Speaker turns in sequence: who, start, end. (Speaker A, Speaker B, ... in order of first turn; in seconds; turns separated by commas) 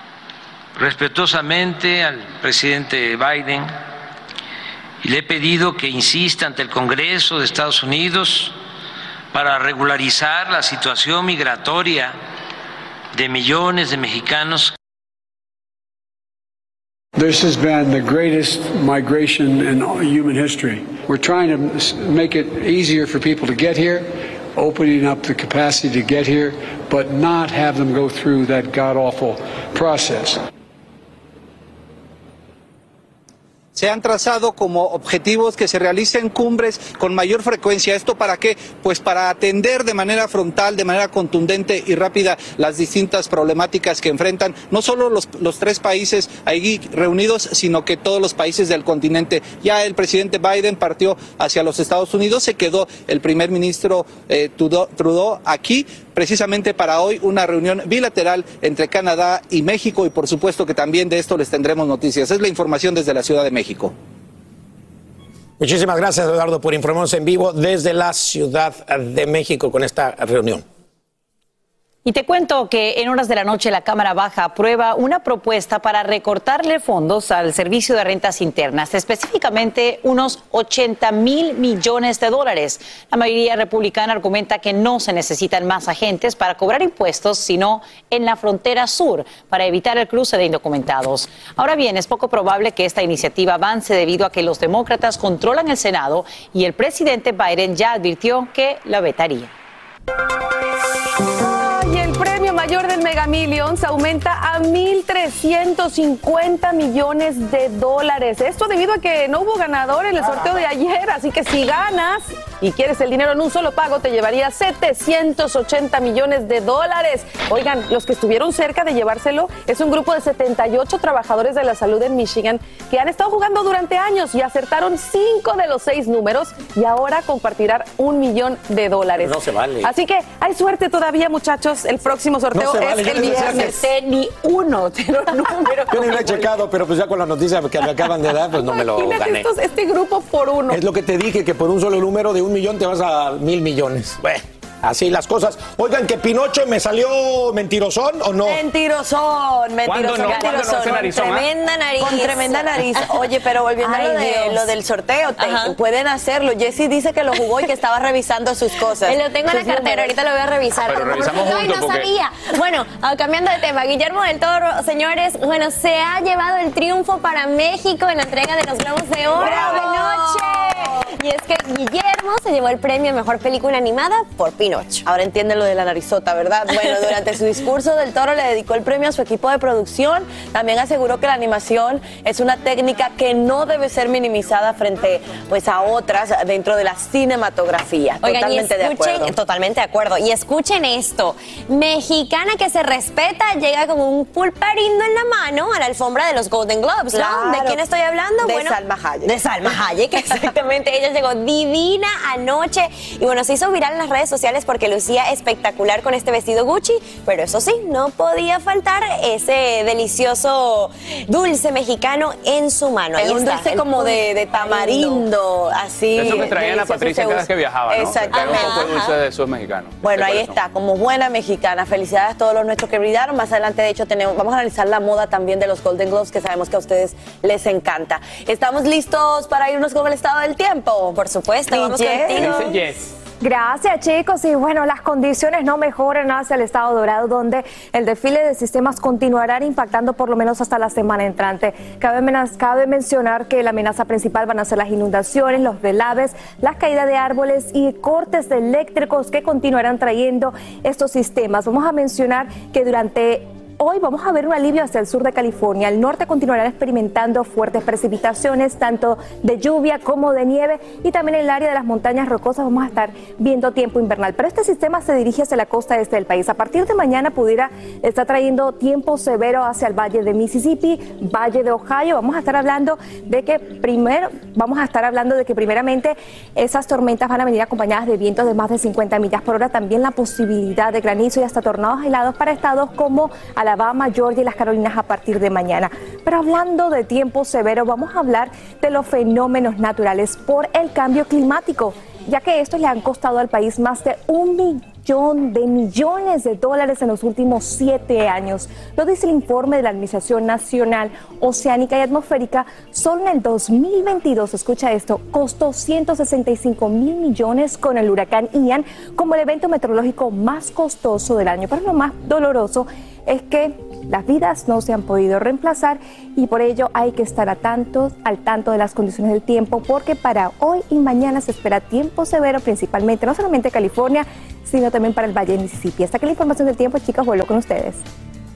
Speaker A: 0.8-3.8, Speaker A: 5.0-8.6, Speaker A: 9.3-12.2, Speaker A: 13.1-14.7, Speaker B: 17.2-24.0, Speaker B: 24.6-30.3, Speaker C: 33.8-63.9, Speaker D: 65.6-70.6, Speaker E: 72.0-99.5, Speaker F: 101.4-136.5, Speaker D: 129.2-129.9, Speaker D: 132.5-133.8, Speaker D: 135.9-139.5, Speaker F: 138.6-140.8, Speaker D: 140.7-148.7, Speaker G: 148.4-151.4, Speaker H: 149.8-151.5, Speaker I: 151.0-153.0, Speaker G: 152.0-160.1, Speaker I: 153.9-154.6, Speaker I: 155.4-155.8, Speaker I: 159.0-175.1, Speaker H: 160.9-162.1, Speaker G: 169.4-170.2, Speaker G: 175.1-189.3, Speaker I: 188.2-198.8, Speaker G: 197.1-197.8, Speaker G: 198.4-200.3, Speaker I: 199.6-215.3, Speaker G: 213.2-219.1, Speaker H: 216.1-220.6, Speaker I: 218.3-219.1, Speaker G: 220.0-231.2, Speaker I: 231.2-232.8, Speaker G: 231.7-232.4, Speaker H: 232.3-233.1, Speaker J: 233.4-328.0